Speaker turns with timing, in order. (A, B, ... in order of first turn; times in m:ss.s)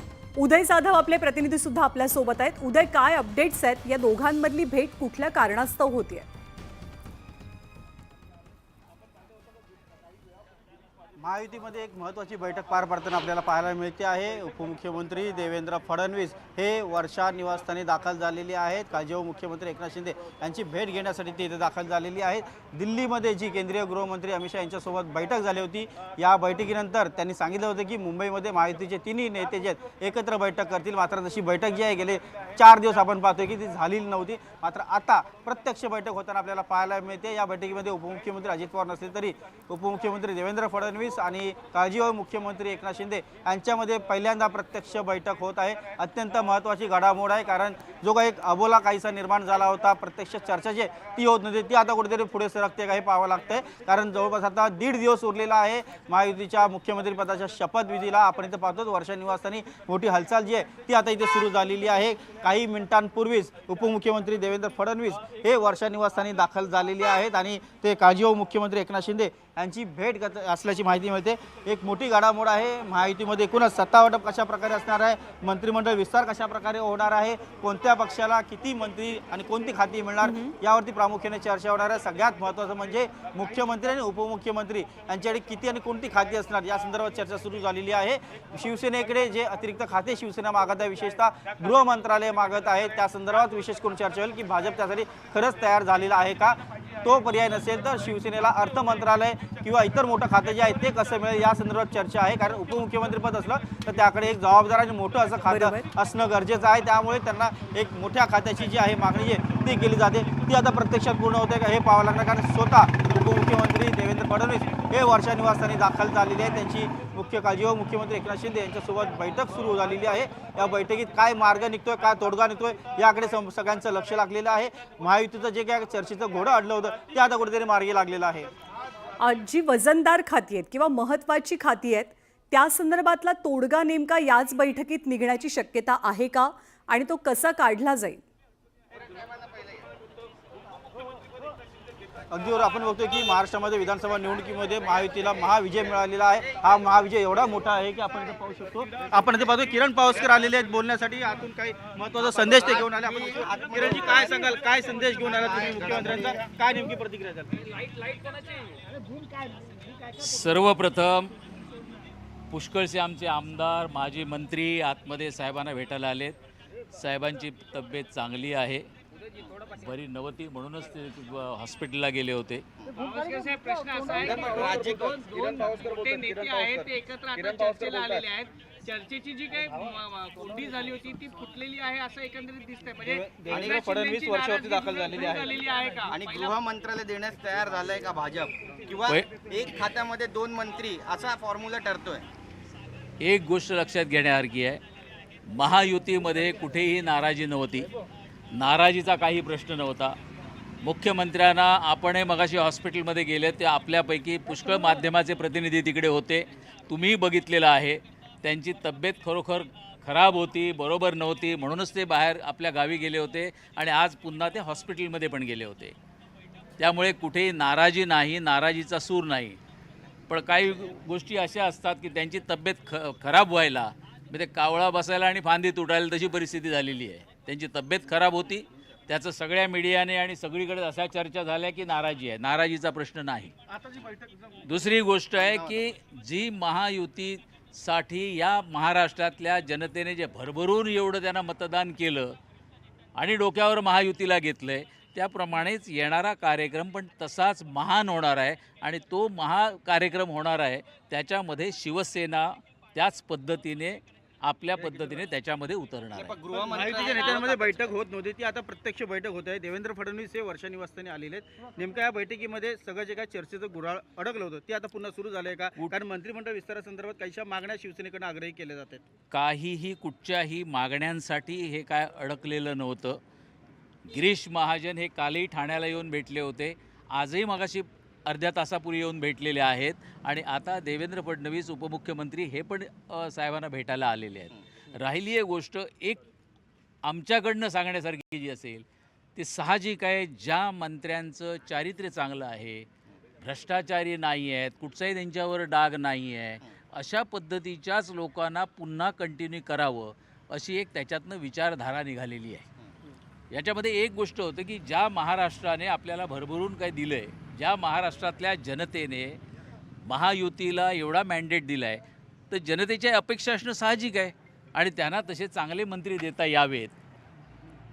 0:00.4-0:06.2 A
0:11.2-2:08.5 B
1:20.2-1:20.5 A
1:45.5-1:45.8 A
2:09.2-2:18.2 A
2:22.3-2:37.6 B
2:32.2-2:34.5 C
2:35.2-2:36.4 C
2:37.9-2:38.4 D
2:40.2-2:41.3 E
2:42.5-2:46.4 E
2:46.9-2:48.8 E
2:49.7-2:52.6 E
2:52.9-3:06.6 D
2:54.2-2:55.2 C
2:54.3-2:58.2 B
3:03.0-3:05.6 B
3:03.5-3:03.8 C
3:06.1-3:12.3 C
3:13.2-3:14.8 E
3:15.5-3:17.9 E
3:18.5-3:20.1 E
3:20.8-3:35.9 E
3:36.8-3:39.6 E
3:40.3-3:53.5 E
3:54.6-4:02.3 E
3:55.4-3:55.8 C
4:03.2-4:16.4 E
4:16.1-4:17.9 C
4:16.5-4:29.0 B
4:16.8-4:17.4 D
4:29.3-4:33.2 E
4:34.1-4:46.2 E
4:47.0-4:48.8 E
4:49.4-4:52.9 E
4:53.4-5:02.6 E
5:03.5-5:09.4 E
5:10.0-5:16.9 E